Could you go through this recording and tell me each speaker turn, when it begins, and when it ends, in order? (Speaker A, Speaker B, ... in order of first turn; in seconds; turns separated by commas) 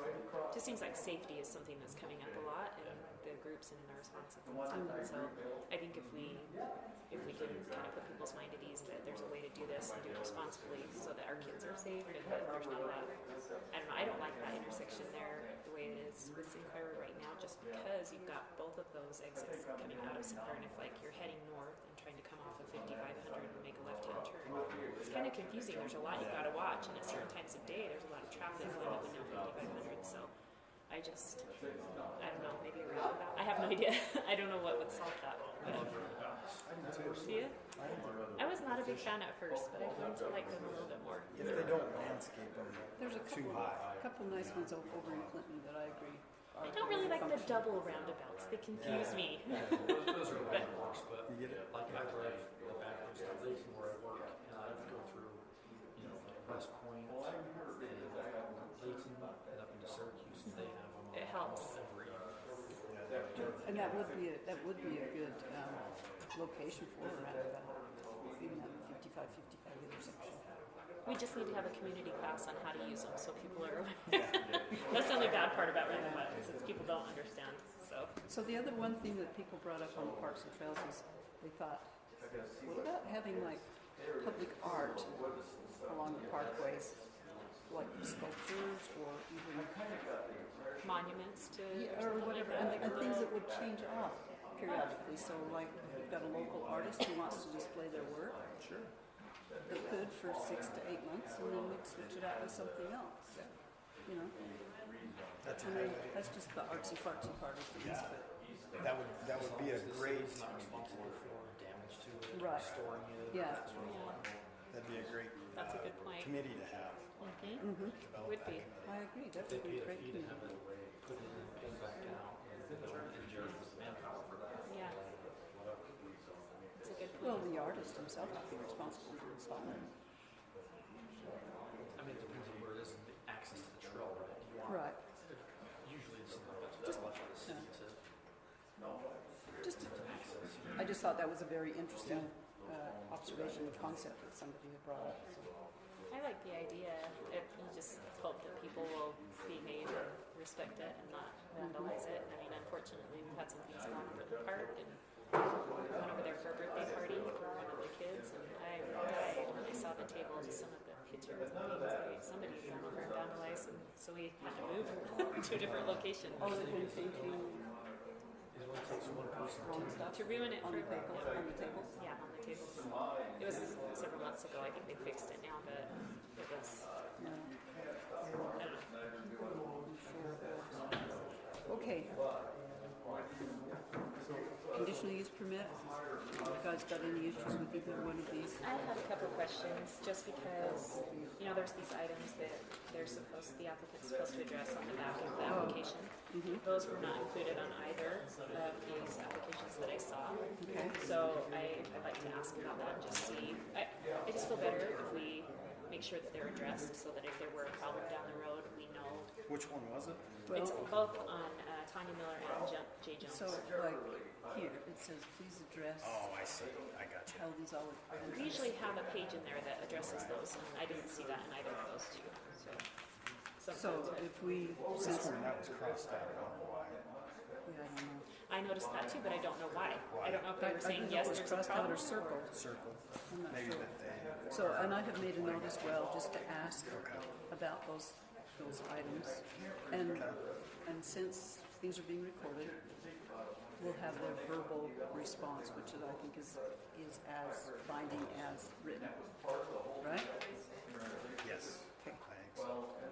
Speaker A: 0.5-30.3, Speaker B: 4.7-5.0, Speaker C: 26.1-26.5, Speaker A: 30.9-31.5, Speaker A: 32.1-36.0, Speaker D: 35.6-36.9, Speaker C: 36.9-37.3, Speaker A: 37.2-37.6, Speaker A: 38.4-41.3, Speaker C: 41.3-45.3, Speaker B: 43.0-47.8, Speaker A: 46.6-50.6, Speaker C: 48.7-49.2, Speaker D: 48.8-62.6, Speaker C: 51.3-51.6, Speaker A: 61.1-61.8, Speaker C: 62.9-63.2, Speaker D: 63.1-64.0, Speaker B: 63.4-70.5, Speaker A: 71.0-78.1, Speaker C: 74.1-74.6, Speaker B: 76.0-76.3, Speaker B: 78.3-81.9, Speaker B: 82.6-83.7, Speaker B: 84.2-87.1, Speaker B: 87.7-89.8, Speaker A: 90.8-93.3, Speaker B: 91.7-98.5, Speaker C: 98.6-98.9, Speaker B: 99.6-103.5, Speaker B: 104.0-104.3, Speaker C: 105.4-106.4, Speaker B: 105.5-108.3, Speaker C: 107.7-110.5, Speaker D: 109.0-114.3, Speaker B: 112.3-112.8, Speaker B: 113.3-113.6, Speaker A: 113.8-114.2, Speaker C: 114.7-119.0, Speaker A: 115.5-116.3, Speaker A: 117.2-118.7, Speaker B: 117.6-118.0, Speaker B: 118.8-120.5, Speaker D: 119.3-125.8, Speaker A: 124.6-125.0, Speaker A: 126.8-127.6, Speaker B: 127.2-129.9, Speaker D: 131.9-138.0, Speaker B: 134.7-135.0, Speaker B: 139.6-139.9, Speaker D: 139.7-140.9, Speaker B: 140.8-145.4, Speaker A: 146.1-155.0, Speaker B: 151.6-151.9, Speaker A: 155.8-166.7, Speaker D: 165.6-167.4, Speaker B: 166.4-167.6, Speaker D: 168.5-170.3, Speaker B: 169.6-171.9, Speaker A: 170.1-176.9, Speaker B: 177.2-177.5, Speaker A: 178.6-178.9, Speaker B: 179.2-180.9, Speaker B: 181.7-182.2, Speaker B: 184.7-189.0, Speaker A: 188.6-209.3, Speaker B: 195.5-196.6, Speaker B: 200.6-200.9, Speaker C: 209.5-210.3, Speaker B: 210.4-210.8, Speaker A: 210.5-213.6, Speaker B: 213.2-216.4, Speaker C: 216.0-217.5, Speaker B: 217.3-218.8, Speaker A: 218.3-222.8, Speaker C: 220.0-220.3, Speaker A: 223.6-224.3, Speaker B: 223.7-225.5, Speaker C: 224.9-227.0, Speaker B: 227.6-228.2, Speaker A: 228.5-232.4, Speaker C: 230.1-230.5, Speaker B: 230.5-232.6, Speaker C: 232.5-235.8, Speaker B: 233.3-240.3, Speaker C: 236.9-237.3, Speaker C: 240.1-240.4, Speaker B: 240.8-242.8, Speaker B: 243.8-249.2, Speaker B: 250.0-250.3, Speaker C: 251.4-252.8